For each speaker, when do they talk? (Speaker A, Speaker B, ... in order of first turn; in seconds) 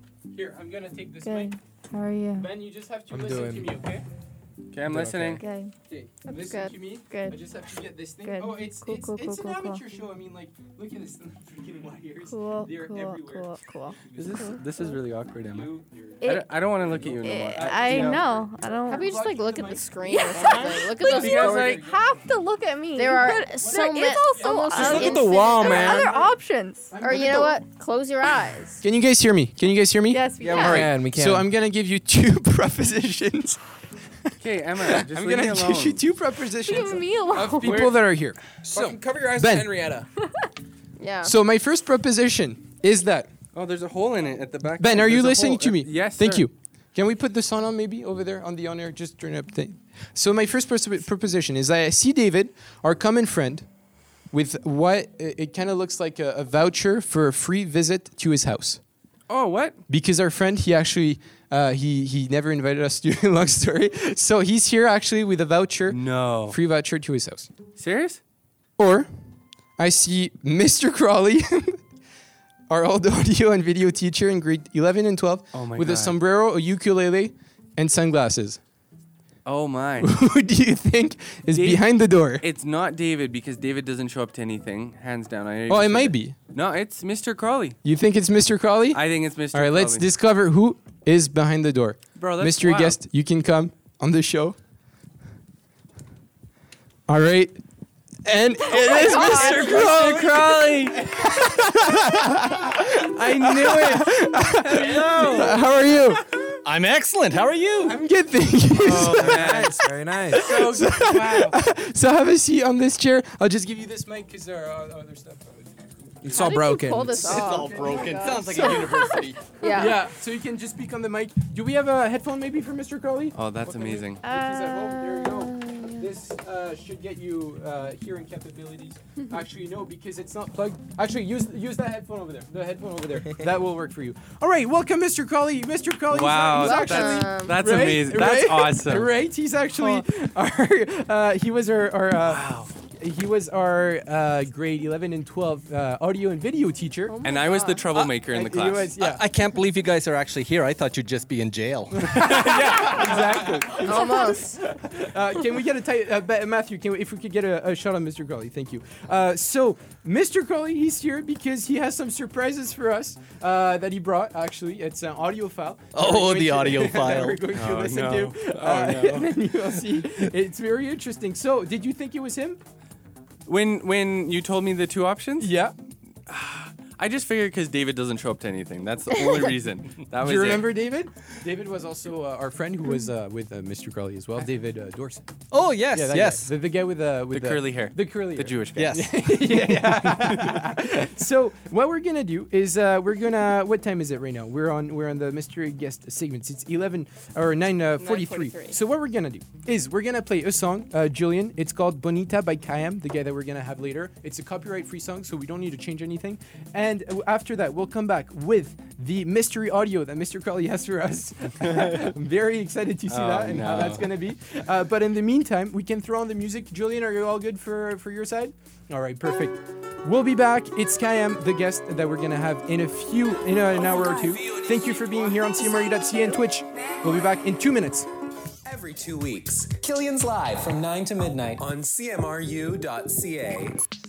Speaker A: 0.3-1.6, 2.3-4.0, 4.9-14.4, 15.4-16.3, 16.9-22.0, 24.4-26.3, 26.9-27.6, 28.8-33.6, 34.8-39.7, 41.2-43.3, 44.8-53.7, 54.3-58.8, 59.9-67.5, 68.8-69.1, 69.8-71.8, 72.7-78.6, 80.0-82.4, 85.7-86.3, 87.8-94.6, 97.1-97.6, 98.2-100.3, 100.9-106.3, 107.8-109.7, 110.3-115.7, 116.2-116.6, 117.6-118.6, 119.7-147.2, 147.9-149.2, 151.9-172.6, 175.4-175.8, 180.2-185.2, 185.9-228.1
Speaker B: 1.2-2.5, 5.4-5.7, 7.0-7.4, 8.2-9.8, 12.3-14.9, 16.2-16.6, 17.2-19.2, 20.1-27.0, 30.1-30.9, 36.6-37.9, 124.2-126.1
Speaker C: 3.1-3.7, 25.1-25.6, 30.4-31.5, 38.6-40.1, 108.8-110.5, 116.2-117.5
Speaker D: 4.7-5.4, 14.2-18.2, 21.0-21.8, 34.4-36.0, 37.6-38.0, 43.5-46.5, 59.3-59.8, 65.9-66.6, 67.8-68.2, 75.5-76.1, 79.4-80.1, 81.5-81.8, 82.4-87.8, 88.9-90.0, 92.2-93.0, 98.7-101.2, 103.4-104.0, 104.7-105.5, 108.8-109.8, 110.3-111.6, 123.3-124.2, 136.1-139.1, 142.2-142.7, 147.2-148.9, 152.2-153.9, 167.5-169.3, 173.4-175.6, 176.3-180.8, 187.3-190.6, 213.1-214.1
Speaker E: 6.3-6.8, 18.9-21.8, 23.0-26.1, 27.0-28.8, 41.0-41.4, 116.3-120.0, 136.5-137.6, 147.1-147.9, 153.8-154.6, 198.0-198.8
Speaker F: 99.0-100.3, 104.7-105.6, 106.6-108.0, 117.2-119.5, 149.0-152.2, 165.9-167.5, 185.5-186.5, 188.8-189.1
Speaker G: 228.7-233.8